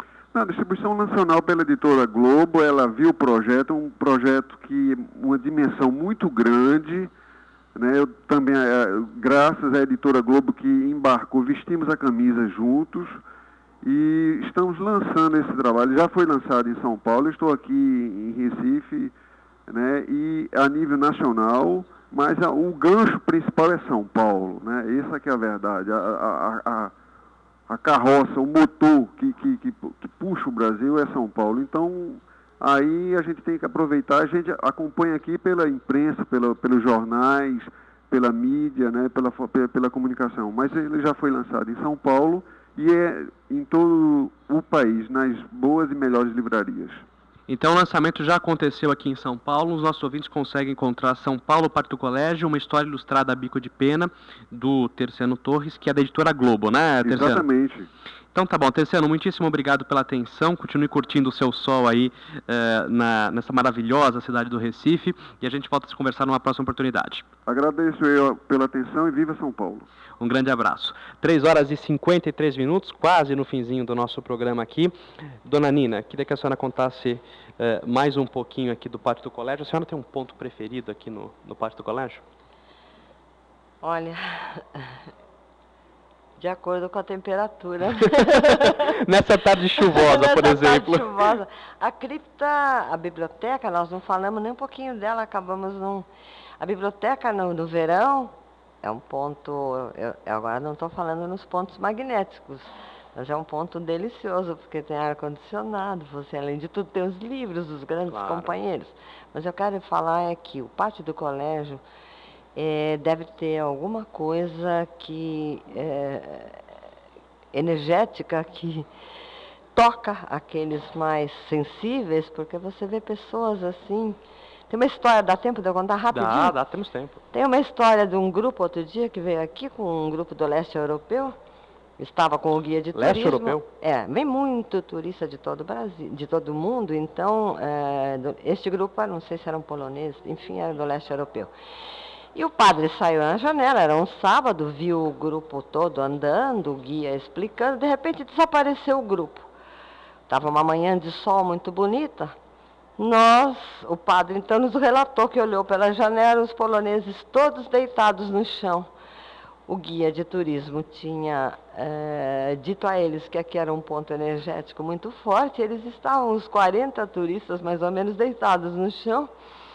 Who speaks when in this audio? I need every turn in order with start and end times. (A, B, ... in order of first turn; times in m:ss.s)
0:00.3-0:07.1 A
0:07.8-0:13.2 A
0:13.8-0:19.1 A
0:19.7-0:26.9 A
0:27.7-0:47.0 A
0:47.5-0:57.5 B
0:57.0-0:57.9 A
0:58.3-1:07.2 B
1:07.5-1:09.9 A
1:10.2-1:22.2 B
1:23.8-1:24.9 C
1:26.4-1:28.9 C
1:28.2-1:31.0 B
1:29.9-1:36.0 C
1:36.6-1:51.8 C
1:48.1-1:48.6 B
1:52.6-1:56.6 C
1:57.5-1:58.8 C
1:59.7-2:04.2 C
2:04.7-2:06.5 C
2:06.1-2:07.2 B
2:07.3-2:11.3 C
2:12.0-2:21.5 C
2:12.9-2:13.6 B
2:22.3-2:29.5 C
2:30.3-2:32.3 C
2:33.0-2:38.9 C
2:39.7-2:49.3 C